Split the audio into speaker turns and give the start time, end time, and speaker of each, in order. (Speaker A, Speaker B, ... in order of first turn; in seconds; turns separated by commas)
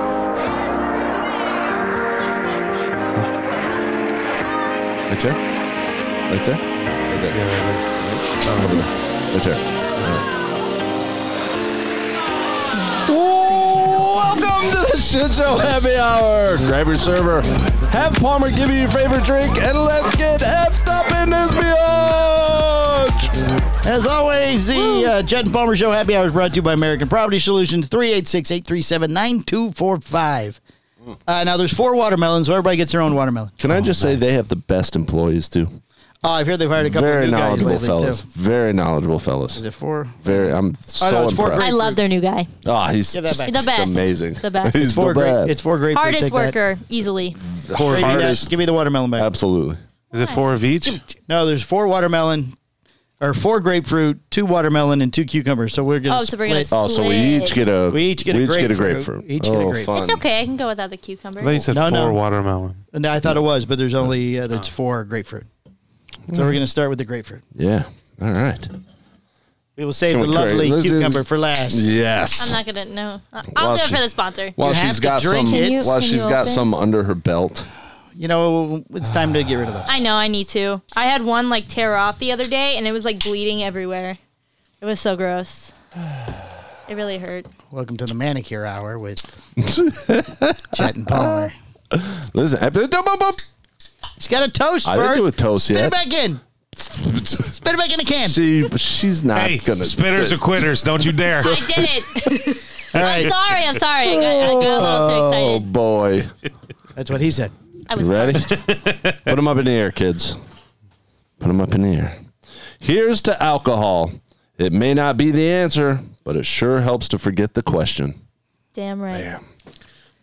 Speaker A: 5.1-5.4, Speaker A: 6.3-7.4, Speaker B: 7.3-7.8, Speaker A: 8.0-10.3, Speaker B: 8.4-8.9, Speaker A: 13.1-23.4, Speaker C: 23.8-30.6, Speaker A: 24.8-25.1, Speaker C: 31.3-34.2, Speaker A: 33.6-35.8, Speaker C: 36.2-38.2, Speaker A: 36.8-39.6, Speaker C: 39.5-42.0, Speaker A: 40.2-41.7, Speaker D: 41.6-42.5, Speaker A: 42.6-45.5, Speaker C: 43.1-43.7, Speaker D: 43.4-44.8, Speaker C: 44.8-46.6, Speaker D: 45.9-47.4, Speaker A: 47.4-48.5, Speaker C: 47.7-49.3, Speaker A: 49.2-49.8, Speaker D: 50.1-50.5, Speaker B: 50.1-51.1, Speaker C: 51.2-52.5, Speaker C: 53.2-56.7, Speaker D: 56.1-57.7, Speaker A: 56.7-60.2, Speaker C: 57.9-60.0, Speaker D: 59.9-61.7, Speaker B: 61.4-62.8, Speaker C: 61.7-62.2, Speaker C: 62.9-65.5, Speaker A: 66.3-66.6, Speaker C: 66.3-67.4, Speaker A: 67.6-68.7, Speaker C: 69.8-71.9, Speaker A: 70.1-72.6, Speaker D: 72.4-74.6, Speaker A: 73.5-74.0, Speaker A: 74.6-77.7, Speaker C: 74.6-75.9, Speaker D: 75.5-76.7, Speaker C: 78.2-79.9, Speaker D: 79.9-84.2, Speaker D: 84.8-85.7, Speaker D: 86.9-87.5, Speaker C: 87.7-89.3, Speaker A: 89.6-93.4, Speaker C: 90.7-91.6, Speaker C: 94.2-96.4, Speaker A: 94.8-96.0, Speaker A: 96.8-97.5, Speaker C: 97.4-98.4, Speaker A: 98.2-100.8, Speaker B: 99.3-101.7, Speaker D: 101.4-105.7, Speaker A: 101.4-101.7, Speaker C: 102.3-103.3, Speaker A: 104.0-106.3, Speaker C: 107.0-107.5, Speaker D: 107.9-108.5, Speaker A: 108.0-108.6, Speaker B: 108.5-109.1, Speaker A: 109.3-110.4, Speaker A: 111.4-112.2, Speaker A: 112.8-118.2, Speaker D: 118.8-119.3, Speaker A: 119.1-119.4